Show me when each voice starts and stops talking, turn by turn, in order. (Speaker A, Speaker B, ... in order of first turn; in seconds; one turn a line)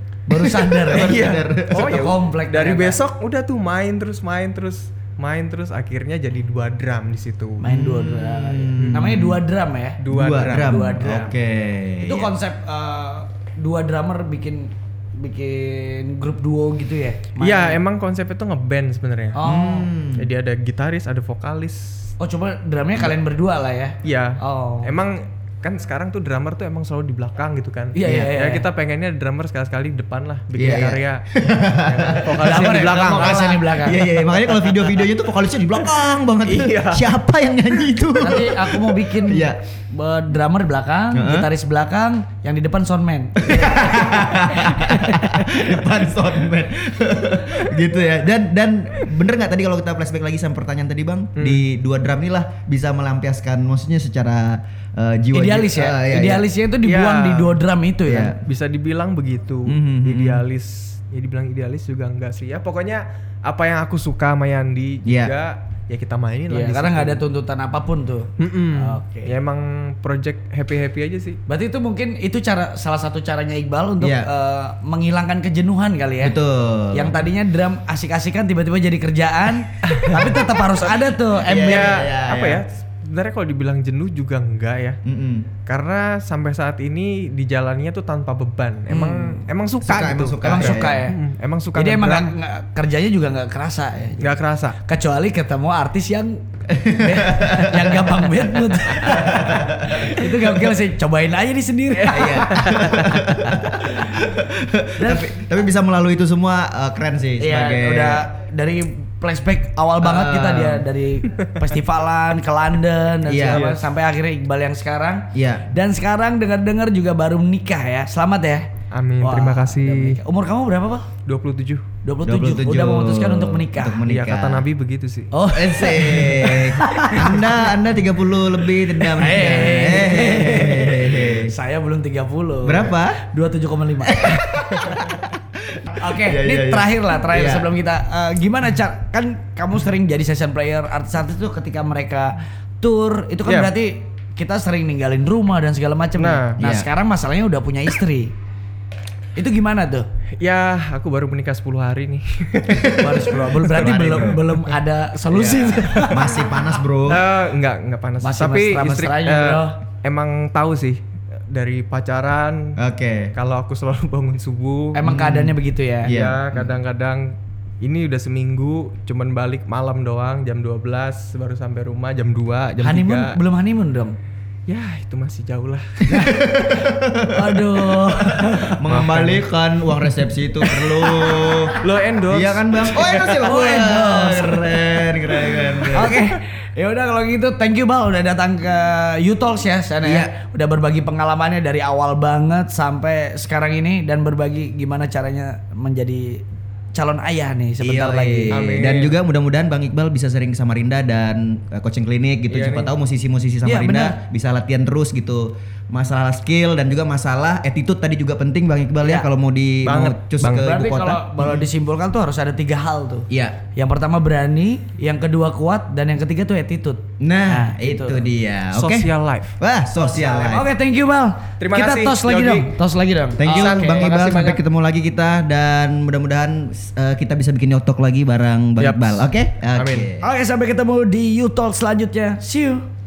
Speaker A: 0.3-3.0
Speaker B: 0.4-2.1
Speaker C: 0.9-7.6
Speaker A: 7.6-11.3
Speaker B: 7.6-9.4
Speaker C: 10.0-11.2
Speaker B: 10.1-12.3
Speaker A: 12.0-17.8
Speaker C: 17.4-19.4
Speaker A: 19.3-19.9
Speaker B: 19.4-20.3
Speaker C: 20.1-22.1
Speaker A: 22.2-24.9
Speaker C: 24.0-31.2
Speaker A: 27.9-28.6
Speaker B: 28.0-28.3
Speaker B: 30.5-39.6
Speaker C: 31.8-33.5
Speaker A: 32.3-34.2
Speaker C: 34.3-35.1
Speaker C: 36.4-37.1
Speaker A: 38.2-45.5
Speaker B: 41.1-41.5
Speaker B: 43.4-56.5
Speaker C: 51.4-51.6
Speaker A: 55.3-58.4
Speaker C: 56.8-57.6
Speaker B: 58.0-58.4
Speaker C: 58.4-67.2
Speaker B: 59.6-60.4
Speaker B: 65.0-65.3
Speaker A: 66.5-69.3
Speaker C: 68.4-71.4
Speaker A: 71.5-76.3
Speaker B: 74.0-74.3
Speaker B: 76.2-77.2
Speaker A: 76.9-82.0
Speaker C: 79.9-81.0
Speaker B: 81.4-82.6
Speaker C: 81.5-85.0
Speaker B: 85.0-85.5
Speaker C: 85.7-92.3
Speaker A: 88.9-89.4
Speaker B: 89.8-91.1
Speaker A: 90.4-91.2
Speaker A: 91.8-104.2
Speaker C: 94.2-94.8
Speaker B: 96.7-98.1
Speaker B: 99.0-100.2
Speaker B: 102.1-108.2
Speaker C: 102.1-103.3
Speaker A: 105.0-105.3
Speaker A: 107.4-118.7
Speaker B: 110.0-110.8
Speaker B: 113.2-113.7
Speaker C: 113.5-113.9
Speaker B: 115.3-115.7
Speaker C: 118.9-120.2
Speaker A: 119.2-121.1
Speaker C: 121.2-121.8
Speaker A: 122.0-124.0
Speaker B: 122.2-124.7
Speaker C: 124.1-125.3
Speaker A: 125.3-127.5
Speaker B: 125.5-131.5
Speaker A: 129.0-134.3
Speaker B: 132.6-133.2
Speaker B: 134.1-137.7
Speaker A: 135.9-148.3
Speaker C: 143.4-143.7
Speaker C: 146.2-146.6
Speaker B: 146.6-146.9
Speaker A: 149.4-150.1
Speaker C: 150.4-154.7
Speaker A: 152.8-156.5
Speaker B: 155.3-157.2
Speaker C: 157.1-162.8
Speaker A: 158.2-159.8
Speaker B: 162.8-163.3
Speaker C: 163.3-165.0
Speaker A: 164.9-166.1
Speaker B: 165.0-166.7
Speaker C: 166.0-173.4
Speaker A: 172.8-174.2
Speaker C: 174.7-176.1
Speaker A: 176.1-176.6
Speaker B: 176.1-181.8
Speaker A: 177.3-178.8
Speaker C: 178.8-179.4
Speaker A: 180.6-181.7
Speaker C: 181.8-183.5
Speaker B: 182.3-186.2
Speaker A: 183.4-185.1
Speaker A: 185.9-198.6
Speaker B: 190.0-190.3
Speaker B: 197.8-211.7
Speaker C: 198.5-199.2
Speaker C: 202.5-202.9
Speaker A: 203.6-204.2
Speaker C: 209.8-210.8
Speaker A: 210.5-218.2
Speaker B: 213.3-213.6
Speaker B: 217.2-220.7
Speaker C: 218.7-219.6
Speaker A: 220.0-223.8
Speaker C: 221.6-222.7
Speaker B: 223.4-230.3
Speaker C: 223.4-224.6
Speaker C: 228.8-230.1
Speaker A: 230.2-232.8